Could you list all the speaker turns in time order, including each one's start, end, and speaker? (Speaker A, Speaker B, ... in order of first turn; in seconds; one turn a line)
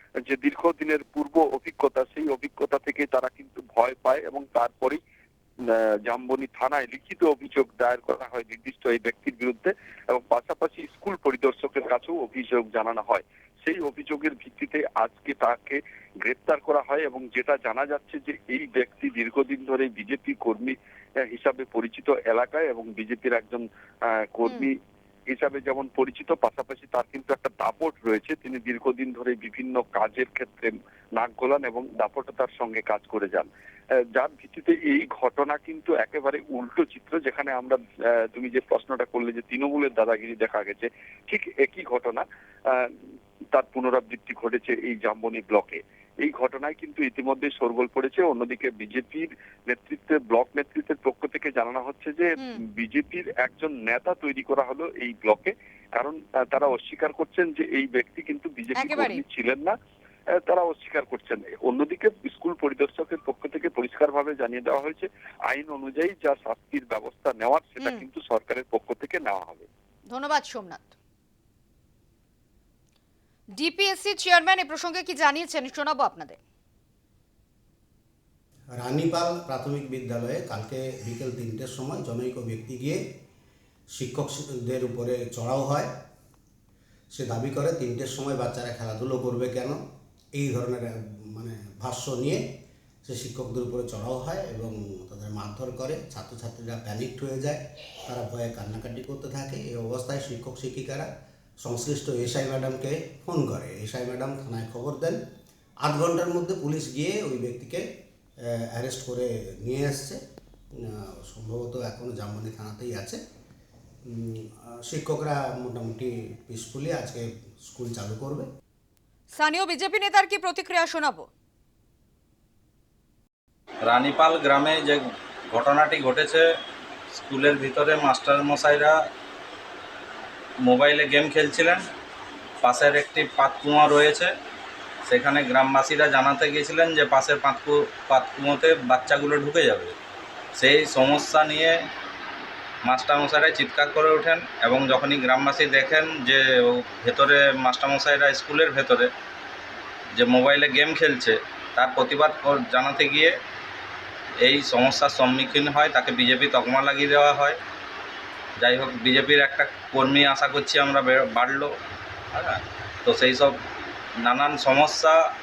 Speaker A: 0.3-5.0
Speaker A: 6.1-20.8
Speaker A: 21.3-23.6
Speaker A: 24.3-24.7
Speaker A: 25.3-33.5
Speaker A: 34.1-37.8
Speaker A: 38.3-42.9
Speaker A: 43.5-59.8
Speaker B: 58.8-59.2
Speaker A: 60.5-69.7
Speaker B: 70.1-71.0
Speaker B: 73.6-76.4
Speaker C: 78.8-83.0
Speaker C: 84.0-85.9
Speaker C: 87.2-89.8
Speaker C: 90.4-92.4
Speaker C: 93.1-101.1
Speaker C: 101.6-105.2
Speaker C: 105.8-107.8
Speaker C: 108.5-110.2
Speaker C: 110.9-113.2
Speaker C: 114.1-118.5
Speaker B: 119.3-121.3
Speaker D: 123.9-125.0
Speaker D: 125.5-126.5
Speaker D: 127.2-128.9
Speaker D: 130.7-131.8
Speaker D: 132.6-134.3
Speaker D: 135.1-139.9
Speaker D: 140.6-141.8
Speaker D: 142.8-149.1
Speaker D: 150.2-153.4
Speaker D: 154.4-157.6
Speaker D: 158.6-161.7
Speaker D: 162.3-163.6
Speaker D: 164.3-165.2